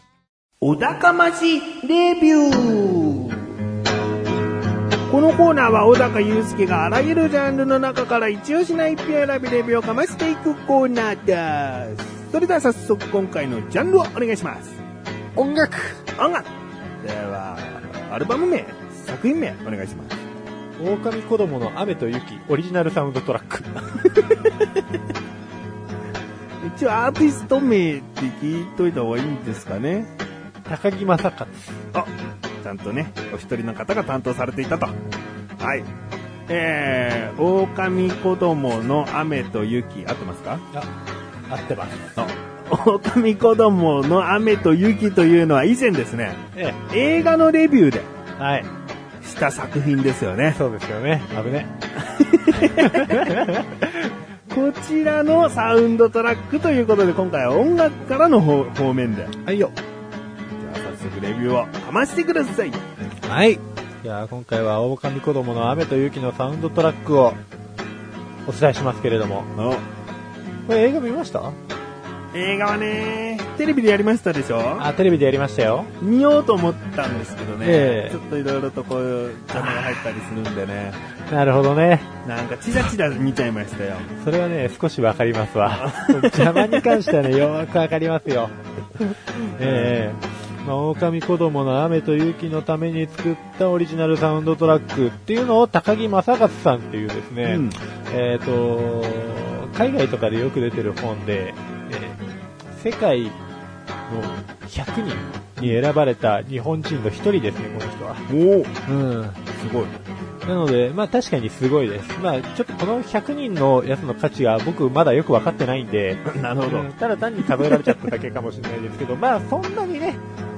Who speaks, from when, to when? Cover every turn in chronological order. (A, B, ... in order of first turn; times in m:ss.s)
0:00.6-0:03.4 A
0:05.1-0:14.8 A
0:15.4-0:16.0 B
0:16.2-0:16.5 A
0:17.0-0:20.2 A
0:20.8-0:23.7 B
0:26.6-0:30.1 A
0:30.6-0:31.8 B
0:32.6-0:35.0 A
0:35.6-0:35.9 A
0:36.5-0:40.6 A
0:41.5-0:42.1 B
0:42.2-0:48.1 A
0:48.4-0:48.7 B
0:49.2-0:50.6 A
0:50.5-0:51.7 B
0:52.0-0:53.4 A
0:52.5-0:54.0 B
0:54.5-0:59.3 A
0:59.4-0:59.7 B
1:00.6-1:02.8 A
1:03.2-1:07.4 B
1:08.4-1:09.5 B
1:09.5-1:09.8 A
1:10.7-1:11.6 B
1:12.3-1:14.9 A
1:14.8-1:15.9 B
1:16.0-1:21.0 A
1:17.6-1:18.2 B
1:21.3-1:22.1 B
1:22.2-1:24.1 A
1:24.2-1:28.6 B
1:25.6-1:27.0 A
1:29.4-1:42.2 B
1:29.6-1:30.0 A
1:37.4-1:37.8 A
1:42.7-1:43.4 B
1:44.1-1:48.2 B
1:48.3-1:48.7 A
1:48.8-1:49.4 B
1:49.5-1:49.9 A
1:50.4-2:00.2 B
1:56.2-1:56.9 A
1:57.5-1:57.9 A